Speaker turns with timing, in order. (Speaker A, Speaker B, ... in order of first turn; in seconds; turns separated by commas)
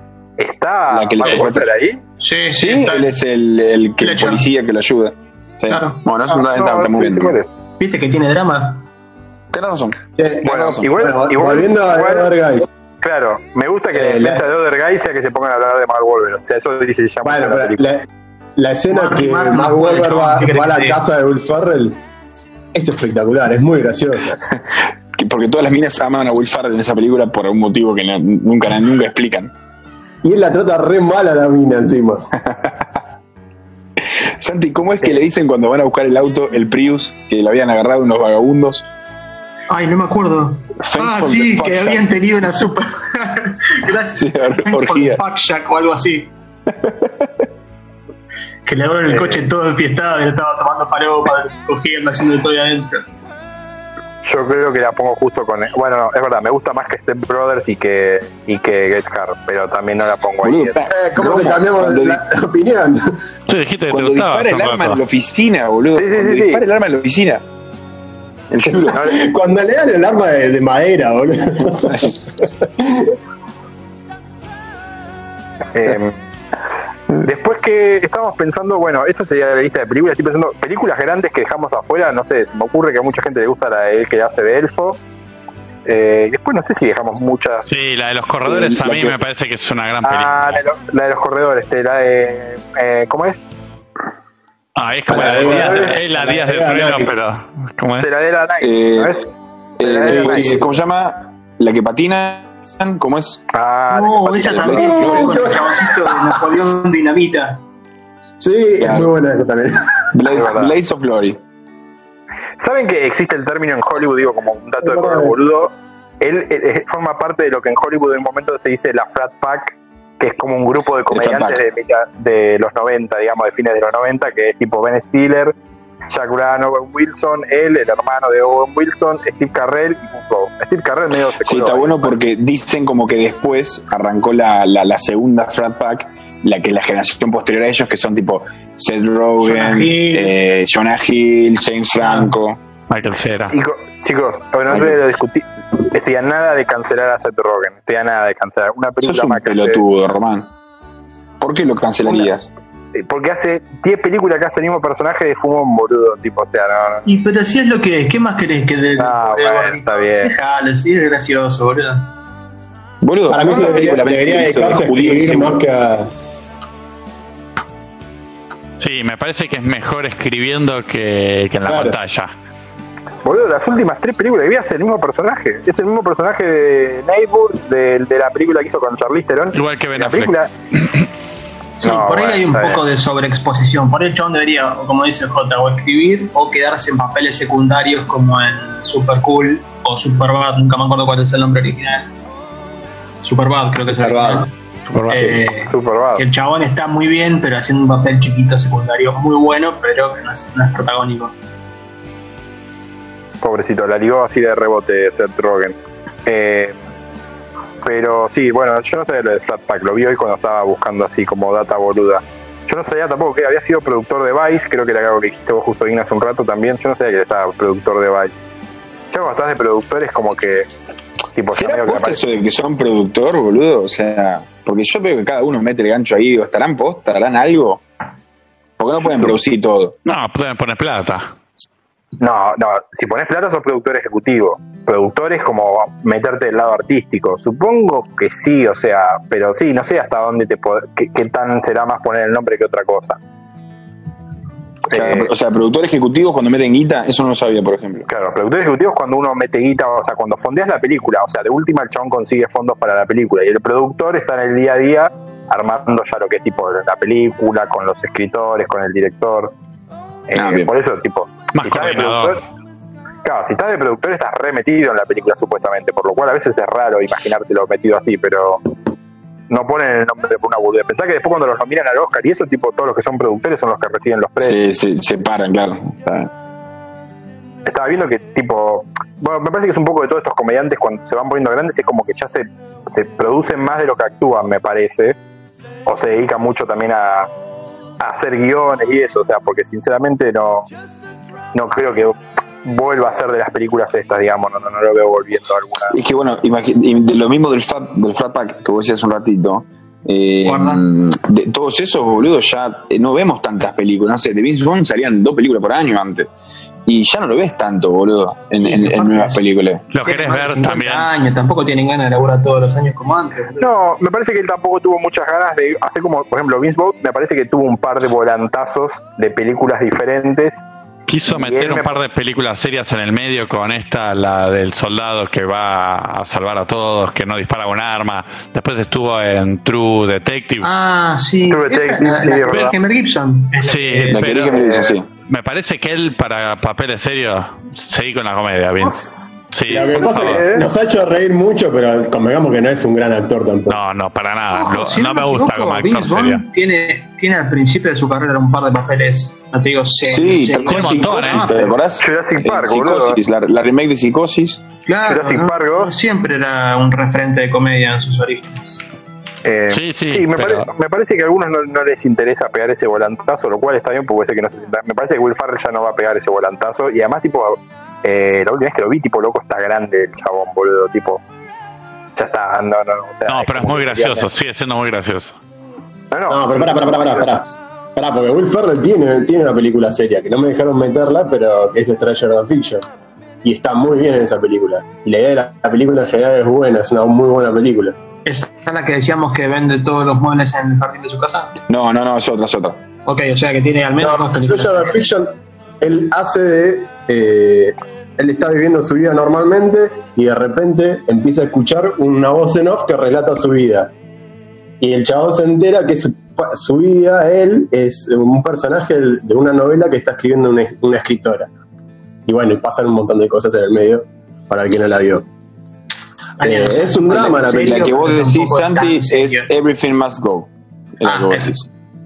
Speaker A: 0.4-2.0, Speaker B: 0.9-1.7, Speaker C: 2.2-3.1, Speaker B: 2.6-7.4, Speaker C: 4.0-4.4, Speaker C: 5.7-6.0, Speaker A: 6.3-7.5, Speaker C: 7.8-8.9, Speaker B: 9.5-10.9, Speaker D: 10.2-12.7, Speaker A: 10.4-12.3, Speaker A: 13.0-17.8, Speaker D: 13.9-14.5, Speaker D: 17.2-18.1, Speaker D: 18.6-22.0, Speaker C: 18.9-21.0, Speaker D: 22.7-24.4, Speaker B: 24.5-29.5, Speaker D: 30.2-32.3, Speaker B: 32.5-32.8, Speaker B: 34.1-38.9, Speaker C: 39.7-46.3, Speaker B: 40.8-42.1, Speaker B: 44.1-45.2, Speaker B: 46.7-47.3, Speaker C: 48.6-53.1, Speaker A: 49.1-49.5, Speaker A: 54.2-60.8, Speaker B: 60.4-62.2, Speaker D: 60.9-63.2, Speaker E: 63.5-65.0, Speaker B: 63.9-67.4, Speaker A: 66.0-66.6, Speaker B: 68.5-69.0, Speaker D: 68.7-73.1, Speaker A: 68.9-69.2, Speaker A: 75.7-76.2, Speaker A: 77.1-85.0, Speaker A: 85.8-87.7, Speaker E: 87.7-90.6, Speaker B: 88.5-89.2, Speaker A: 90.0-93.4, Speaker E: 94.8-98.1, Speaker D: 95.1-97.1, Speaker A: 95.4-95.9, Speaker A: 98.0-100.6, Speaker B: 98.6-99.1, Speaker B: 99.8-103.4, Speaker D: 100.0-100.8, Speaker A: 103.5-105.1, Speaker C: 103.9-107.6, Speaker B: 104.4-105.6, Speaker D: 104.8-106.4, Speaker D: 108.4-110.2, Speaker B: 108.8-109.1, Speaker B: 110.1-111.4, Speaker A: 110.3-110.8, Speaker A: 112.6-125.5, Speaker D: 114.8-115.4, Speaker B: 121.1-121.6, Speaker A: 126.1-132.2, Speaker B: 131.4-142.6, Speaker C: 139.4-140.3, Speaker C: 142.0-142.3, Speaker E: 142.9-143.6, Speaker A: 143.5-149.8, Speaker B: 149.0-150.5, Speaker B: 151.4-152.5, Speaker A: 152.9-157.1, Speaker C: 157.1-162.1, Speaker A: 159.0-160.3, Speaker B: 163.0-165.7, Speaker D: 163.3-166.1, Speaker E: 168.8-172.3, Speaker D: 171.7-172.0, Speaker A: 173.2-180.5, Speaker E: 179.5-180.3, Speaker C: 181.8-192.1, Speaker A: 181.8-182.8, Speaker C: 193.2-194.5, Speaker D: 193.9-194.5, Speaker E: 194.9-195.4, Speaker C: 195.1-201.4, Speaker A: 195.5-196.2, Speaker A: 203.4-206.8, Speaker A: 207.8-218.4, Speaker A: 219.1-220.7, Speaker A: 221.3-222.2, Speaker B: 221.5-227.8, Speaker B: 228.8-230.0, Speaker E: 230.1-231.3, Speaker A: 232.2-243.2, Speaker A: 244.9-245.3, Speaker B: 244.9-248.1, Speaker A: 248.1-259.5, Speaker A: 260.3-262.4, Speaker B: 260.4-260.7, Speaker E: 261.5-262.4, Speaker A: 263.2-268.6, Speaker A: 269.5-274.6, Speaker B: 274.4-276.3, Speaker A: 277.7-285.2, Speaker A: 285.9-287.3, Speaker A: 288.0-290.7, Speaker A: 291.5-296.0, Speaker B: 295.9-306.3, Speaker C: 300.4-300.9, Speaker B: 306.9-309.9, Speaker C: 308.6-309.4, Speaker E: 309.9-311.1, Speaker C: 310.0-313.7, Speaker A: 313.6-320.6, Speaker E: 321.1-330.7, Speaker A: 321.3-322.0, Speaker C: 330.6-334.4, Speaker A: 331.5-332.7, Speaker E: 333.6-334.8, Speaker B: 334.1-335.1, Speaker A: 334.5-335.0, Speaker E: 335.3-340.4, Speaker D: 339.7-343.8, Speaker A: 340.0-340.7, Speaker E: 343.7-346.4, Speaker C: 344.5-351.8, Speaker B: 350.0-354.6, Speaker E: 350.7-351.6, Speaker A: 352.0-353.2, Speaker C: 354.9-358.8, Speaker A: 355.1-355.9, Speaker A: 359.4-371.2, Speaker E: 359.7-360.7, Speaker A: 372.2-374.3, Speaker E: 373.3-375.4, Speaker A: 376.1-377.3, Speaker D: 376.3-382.9, Speaker D: 383.4-387.9, Speaker C: 388.2-391.6, Speaker B: 391.7-392.8, Speaker C: 393.1-395.0, Speaker D: 394.0-403.9, Speaker D: 404.8-411.5, Speaker D: 412.3-415.3, Speaker C: 416.4-419.5, Speaker D: 416.4-417.9, Speaker B: 417.3-421.7, Speaker C: 421.1-421.6